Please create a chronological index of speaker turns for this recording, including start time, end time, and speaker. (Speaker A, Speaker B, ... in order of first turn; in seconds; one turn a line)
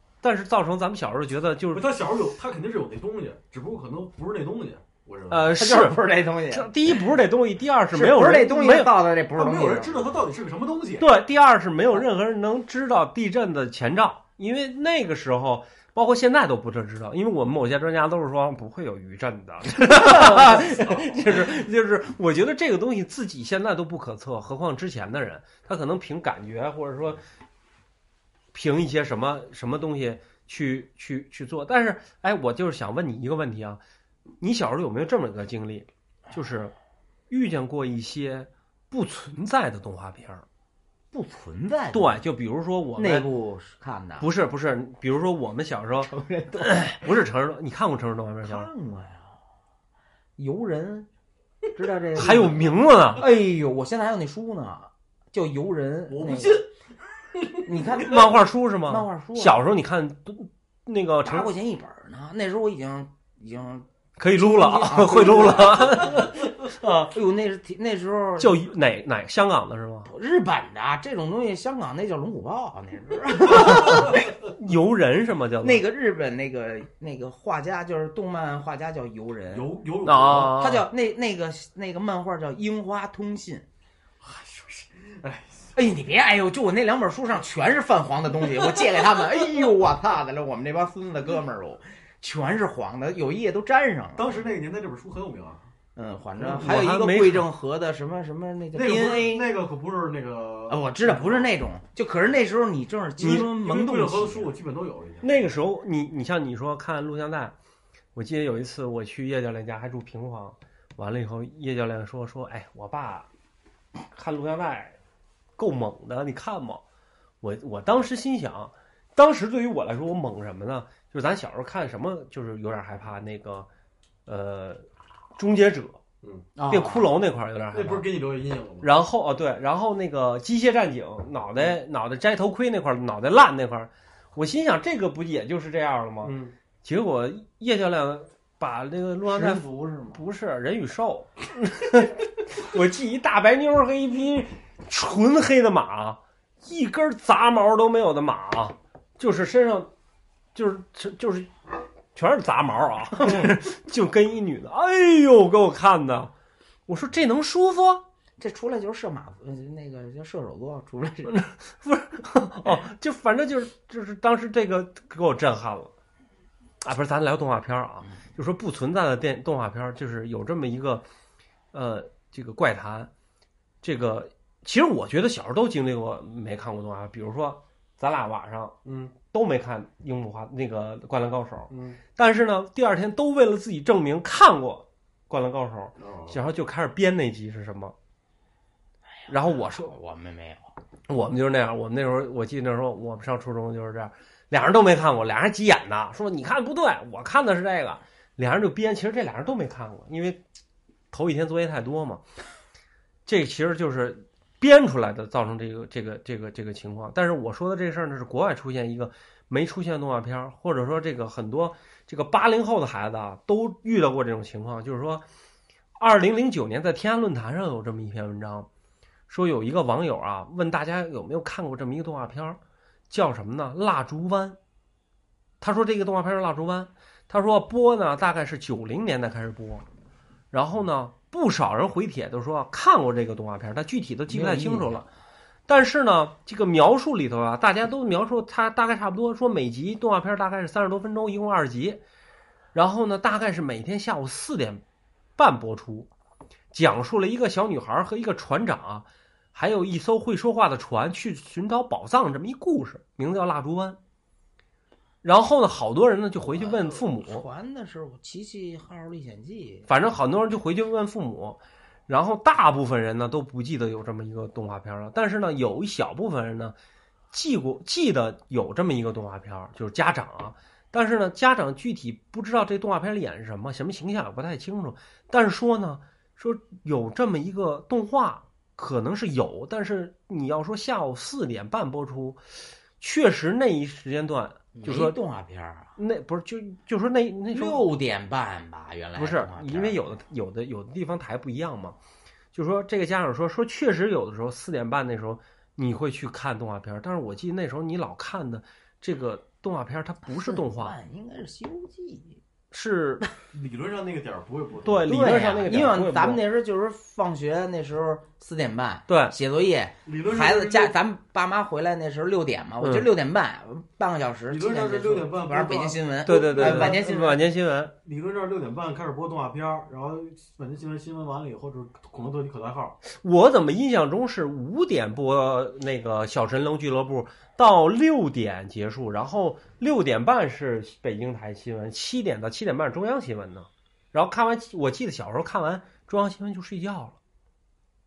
Speaker A: 0.2-1.9
Speaker B: 1.7-5.6
Speaker A: 5.3-8.9
Speaker C: 5.5-6.8
Speaker C: 7.9-10.2
Speaker B: 9.3-11.1
Speaker A: 11.0-27.2
Speaker C: 19.9-21.2
Speaker A: 28.5-33.8
Speaker A: 34.4-36.7
Speaker A: 37.3-40.5
Speaker C: 41.1-42.2
Speaker A: 41.9-43.3
Speaker C: 43.0-44.3
Speaker A: 44.2-48.7
Speaker C: 46.0-47.0
Speaker C: 48.4-49.4
Speaker C: 50.4-51.1
Speaker C: 51.7-56.6
Speaker A: 52.1-53.3
Speaker B: 56.1-56.7
Speaker B: 57.4-57.7
Speaker C: 57.6-58.3
Speaker A: 57.9-61.5
Speaker C: 58.9-59.6
Speaker C: 61.2-68.6
Speaker A: 64.2-66.4
Speaker A: 68.4-70.1
Speaker C: 70.1-74.3
Speaker A: 73.6-75.8
Speaker C: 75.6-79.7
Speaker B: 79.5-80.6
Speaker A: 80.0-80.9
Speaker C: 80.3-83.7
Speaker B: 84.2-85.7
Speaker C: 85.8-94.3
Speaker B: 94.2-95.6
Speaker C: 96.0-99.5
Speaker B: 96.4-96.8
Speaker A: 96.6-97.5
Speaker B: 98.7-101.5
Speaker C: 100.7-104.5
Speaker B: 103.2-105.5
Speaker A: 105.2-107.5
Speaker A: 108.2-113.3
Speaker A: 114.1-115.0
Speaker A: 115.6-116.8
Speaker A: 117.4-123.7
Speaker A: 124.3-124.8
Speaker A: 125.4-126.0
Speaker B: 126.2-126.5
Speaker C: 126.6-127.1
Speaker A: 126.7-128.1
Speaker B: 127.7-128.9
Speaker A: 128.8-149.9
Speaker B: 136.2-136.5
Speaker C: 139.2-140.2
Speaker A: 150.6-151.5
Speaker A: 152.1-156.3
Speaker A: 156.9-158.0
Speaker C: 158.4-161.4
Speaker A: 161.3-165.9
Speaker A: 166.8-171.1
Speaker A: 171.7-173.1
Speaker A: 173.8-187.9
Speaker B: 178.8-179.1
Speaker B: 181.7-182.0
Speaker B: 186.0-186.4
Speaker C: 189.3-190.7
Speaker A: 189.3-189.9
Speaker A: 191.1-200.4
Speaker A: 201.1-202.2
Speaker A: 203.3-215.2
Speaker A: 216.0-218.7
Speaker A: 219.3-224.6
Speaker A: 225.6-229.8
Speaker A: 230.5-235.1
Speaker C: 234.3-235.0
Speaker A: 235.7-242.0
Speaker A: 242.7-244.8
Speaker A: 245.4-246.1
Speaker A: 246.7-254.0
Speaker A: 255.2-257.4
Speaker C: 256.5-259.9
Speaker A: 259.9-266.8
Speaker A: 267.3-282.4
Speaker A: 283.0-285.2
Speaker C: 284.8-285.9
Speaker A: 286.0-287.9
Speaker C: 287.5-290.0
Speaker A: 289.2-292.0
Speaker A: 292.5-300.9
Speaker C: 300.4-302.4
Speaker A: 302.7-303.2
Speaker B: 303.5-305.3
Speaker A: 304.8-306.4
Speaker C: 305.1-317.4
Speaker A: 309.1-309.4
Speaker B: 310.1-310.9
Speaker A: 312.8-313.1
Speaker B: 314.5-317.1
Speaker A: 316.2-317.9
Speaker B: 318.0-323.0
Speaker A: 323.1-337.2